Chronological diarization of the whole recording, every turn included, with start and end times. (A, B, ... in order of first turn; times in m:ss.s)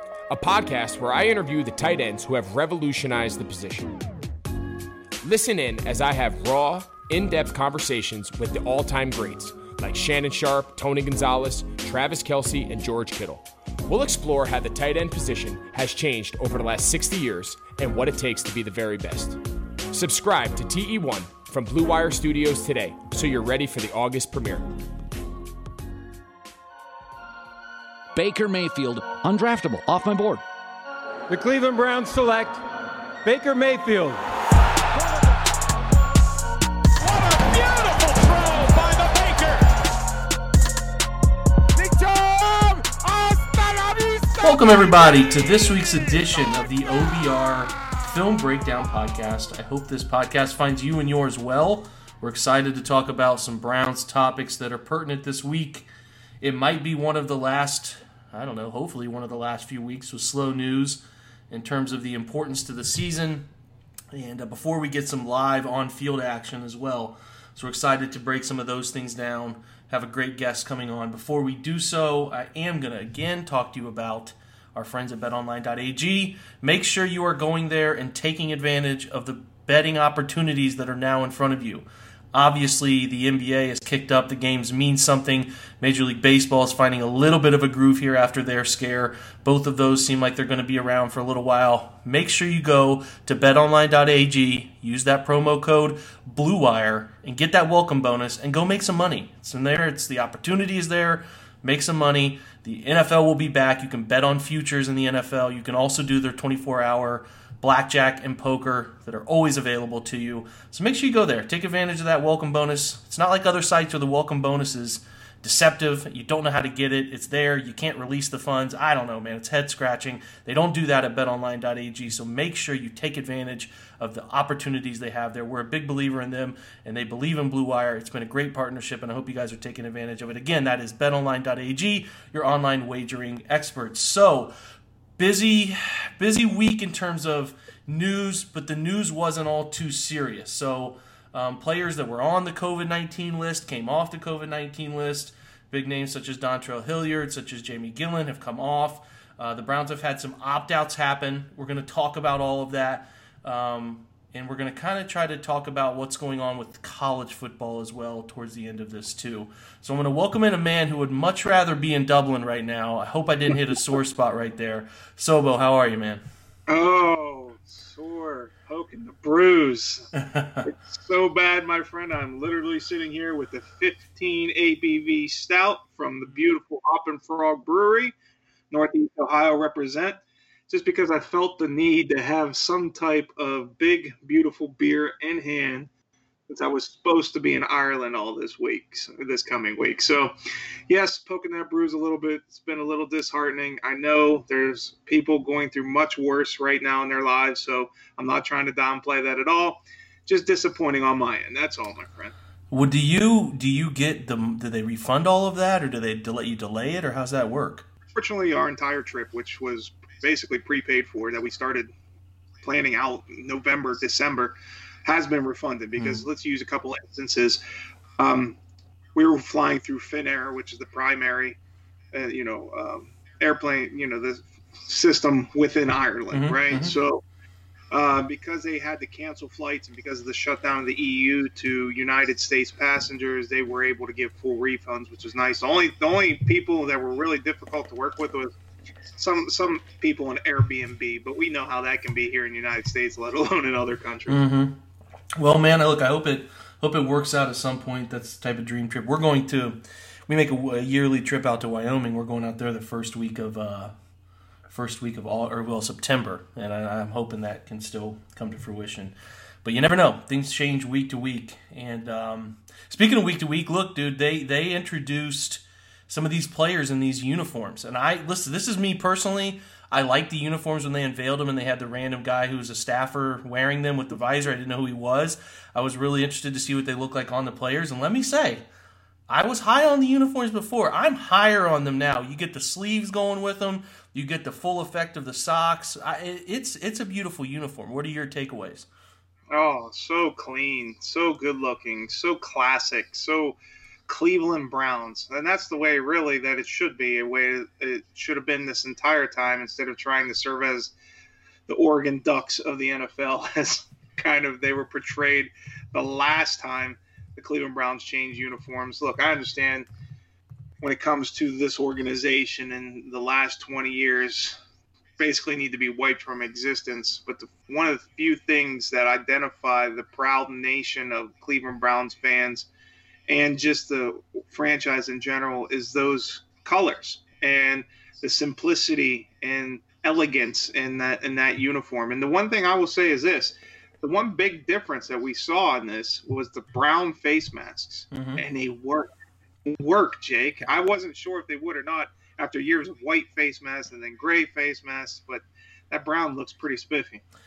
0:00.3-0:04.0 A
0:05.2-0:24.7 A
0:28.1-0:30.4 B
0:31.3-0:32.6 C
0:33.2-0:34.2 C
0:39.1-0:39.5 A
0:44.4-0:55.9 D
0:56.4-1:03.5 D
1:04.1-2:14.5 D
2:15.2-2:46.2 D
2:46.7-2:50.1 E
2:50.2-2:50.7 D
2:50.6-2:58.2 E
2:58.7-3:05.9 E
3:06.5-3:10.3 E
3:10.9-3:22.3 E
3:22.7-3:27.9 D
3:28.1-3:31.9 E
3:32.6-3:37.6 E
3:36.0-3:36.2 D
3:38.2-3:38.6 E
3:39.2-3:41.6 E
3:42.1-3:47.2 E
3:46.3-3:47.0 D
3:47.9-3:58.5 E
3:59.2-4:04.4 E
4:04.3-4:04.8 D
4:05.4-4:13.9 D
4:14.7-4:38.6 D
4:39.3-4:48.9 D
4:49.5-5:00.9 E
5:01.7-5:09.9 E
5:10.8-5:14.6 E
5:15.2-5:22.7 E
5:23.3-5:39.1 E
5:38.1-5:38.4 D
5:39.6-5:47.2 E